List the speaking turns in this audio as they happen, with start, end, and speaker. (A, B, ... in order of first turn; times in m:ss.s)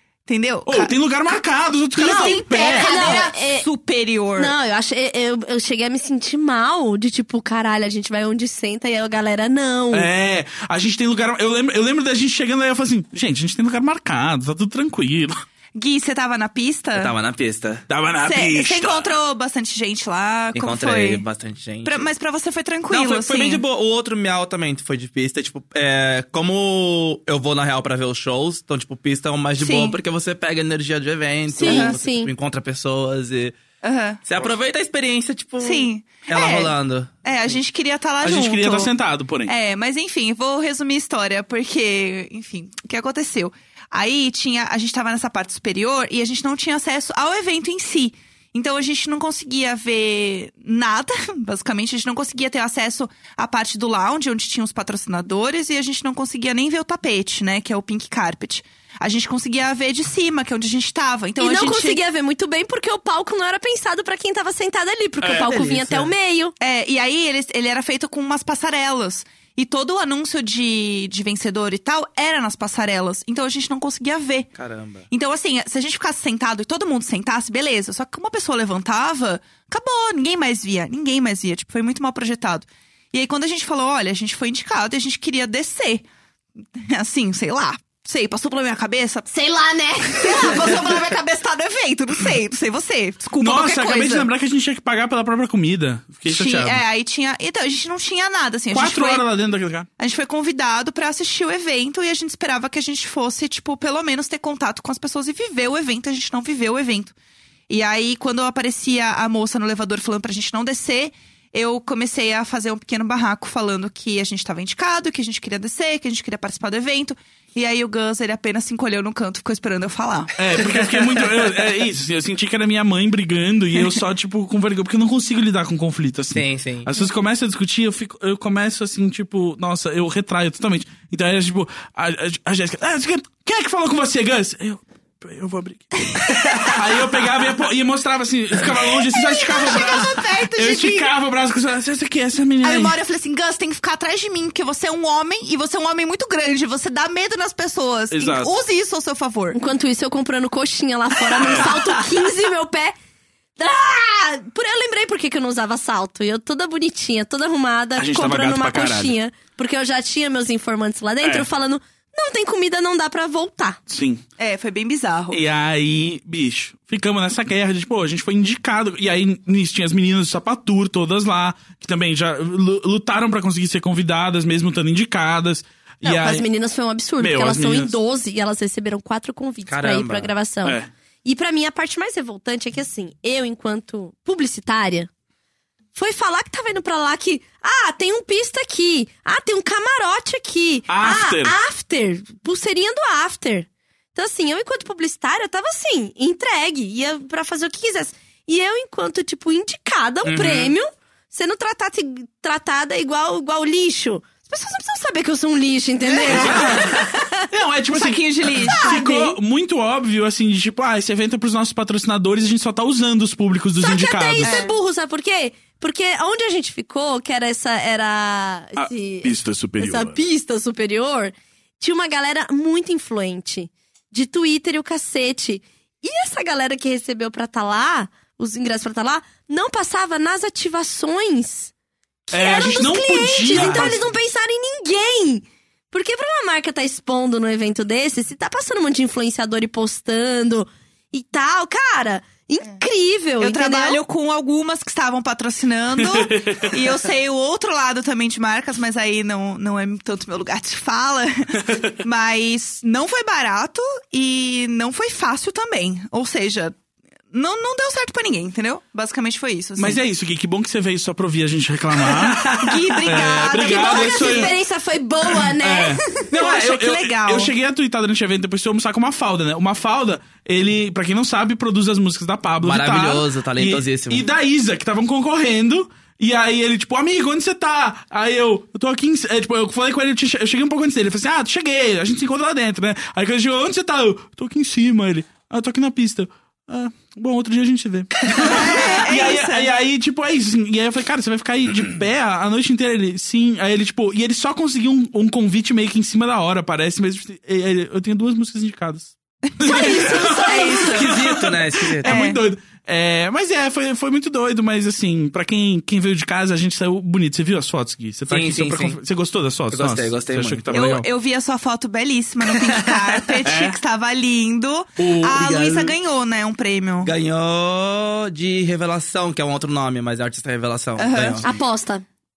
0:00.3-0:00.9 A
0:00.6-0:03.3 B
0:02.0-0:04.5 A
0:02.0-0:03.7 C
0:04.4-0:10.1 C
0:09.9-0:15.4 B
0:15.7-0:17.1 A
0:16.9-0:17.8 D
0:17.9-0:19.1 B
0:18.2-0:21.2 A
0:20.5-0:22.1 D
0:21.8-0:23.6 A
0:22.9-0:33.6 D
0:29.6-0:30.0 A
0:31.5-0:32.3 C
0:31.6-0:31.9 A
0:33.8-0:34.2 A
0:34.2-0:37.6 D
0:35.6-0:36.7 A
0:37.2-0:38.9 A
0:38.2-0:39.5 B
0:39.4-1:02.0 A
1:01.4-1:06.5 C
1:05.2-1:06.1 B
1:06.6-1:14.5 A
1:14.5-1:15.1 D
1:15.1-1:26.0 A
1:26.8-1:34.3 A
1:29.4-1:30.5 C
1:33.4-1:36.8 B
1:36.3-1:39.2 A
1:38.7-1:39.9 B
1:40.0-1:47.1 A
1:47.7-2:00.3 A
2:00.4-2:23.0 B
2:06.3-2:06.9 D
2:16.4-2:16.7 A
2:18.9-2:21.1 A
2:22.6-2:29.6 A
2:28.1-2:28.5 B
2:29.5-2:32.9 C
2:31.4-2:31.7 B
2:33.6-2:43.8 C
2:38.0-2:39.1 B
2:41.2-2:41.5 B
2:43.9-2:44.2 B
2:44.4-2:45.4 A
2:45.3-2:56.4 B
2:56.0-3:05.1 C
2:57.2-2:57.9 B
2:59.7-3:00.3 D
3:00.6-3:00.9 B
3:05.9-3:27.4 C
3:10.9-3:11.6 B
3:20.2-3:20.7 D
3:20.3-3:20.5 B
3:26.3-3:34.6 B
3:26.4-3:26.9 A
3:27.9-3:29.2 A
3:28.8-3:29.2 C
3:33.8-3:51.7 C
3:34.4-3:34.7 A
3:38.8-3:40.2 B
3:52.3-4:04.0 C
3:52.3-3:54.1 B
4:03.4-4:16.8 A
4:06.0-4:06.8 B
4:17.3-4:20.0 A
4:19.8-4:24.5 B
4:22.4-4:24.5 A
4:23.5-4:26.3 C
4:25.6-5:11.1 B
4:26.3-4:27.5 A
4:32.6-4:34.2 D
4:48.3-4:49.7 A
4:59.6-5:01.2 A
5:00.0-5:02.2 D
5:02.0-5:02.4 A
5:08.3-5:09.0 D
5:09.7-5:10.7 D
5:10.7-5:17.1 A
5:12.6-5:13.0 D
5:13.4-5:13.8 B
5:15.0-5:15.8 B
5:15.3-5:15.9 D
5:17.0-5:21.5 D
5:21.0-5:21.5 A
5:21.4-5:22.0 C